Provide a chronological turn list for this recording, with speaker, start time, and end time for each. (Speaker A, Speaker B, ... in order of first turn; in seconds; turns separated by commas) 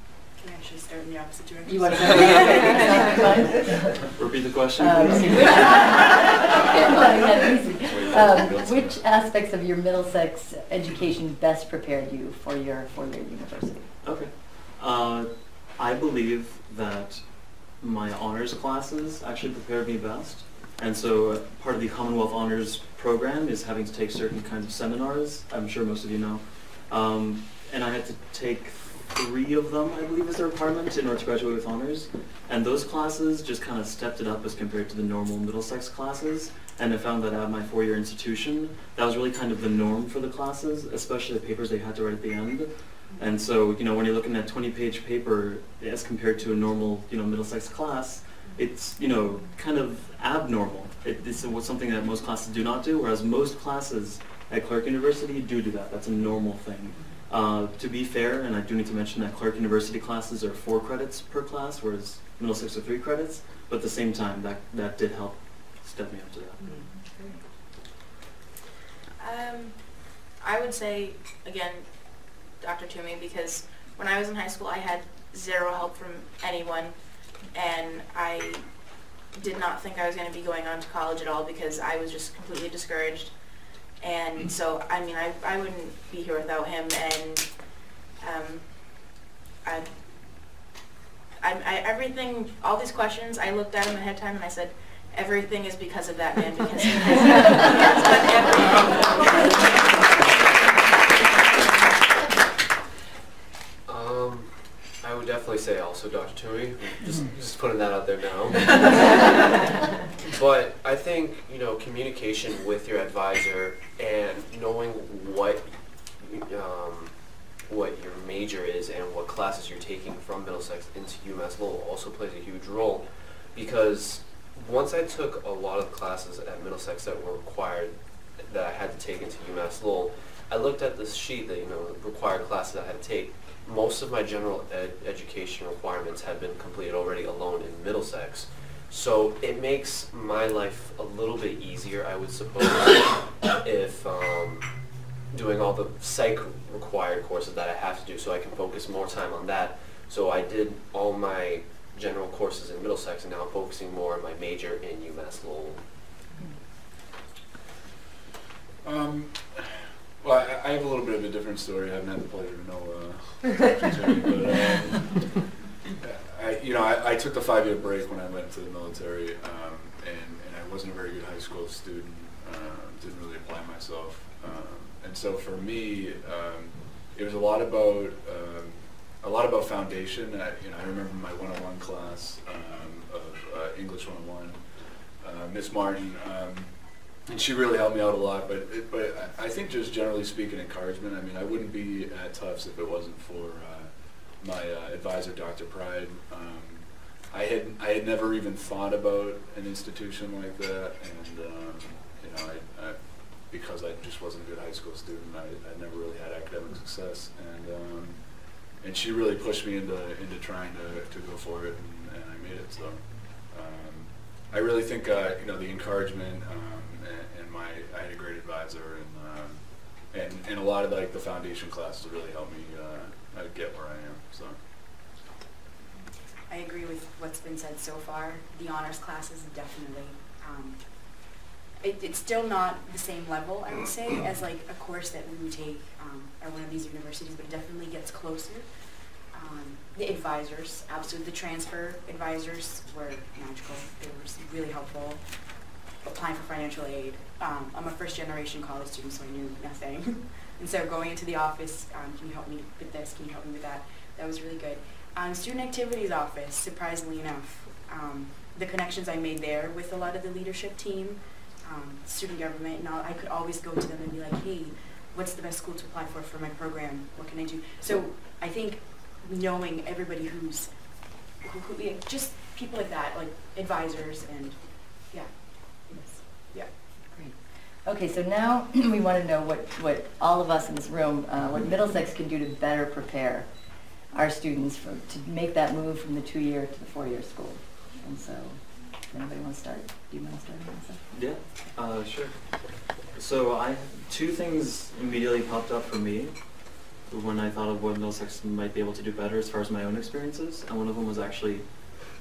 Speaker A: 0.3-3.1, Speaker B: 1.6-4.2, Speaker C: 4.1-5.6, Speaker B: 4.8-13.9, Speaker D: 7.8-9.0, Speaker C: 14.0-66.8, Speaker B: 66.6-67.4, Speaker E: 69.2-78.8, Speaker E: 79.3-83.3, Speaker E: 84.0-87.6, Speaker E: 88.2-90.0, Speaker E: 91.4-99.8, Speaker F: 103.9-109.7, Speaker F: 110.3-144.7, Speaker F: 145.3-155.8, Speaker D: 158.8-224.6, Speaker A: 226.5-238.7, Speaker A: 239.3-245.2, Speaker A: 246.0-276.7, Speaker B: 275.9-276.2, Speaker B: 277.1-291.1, Speaker C: 291.1-301.7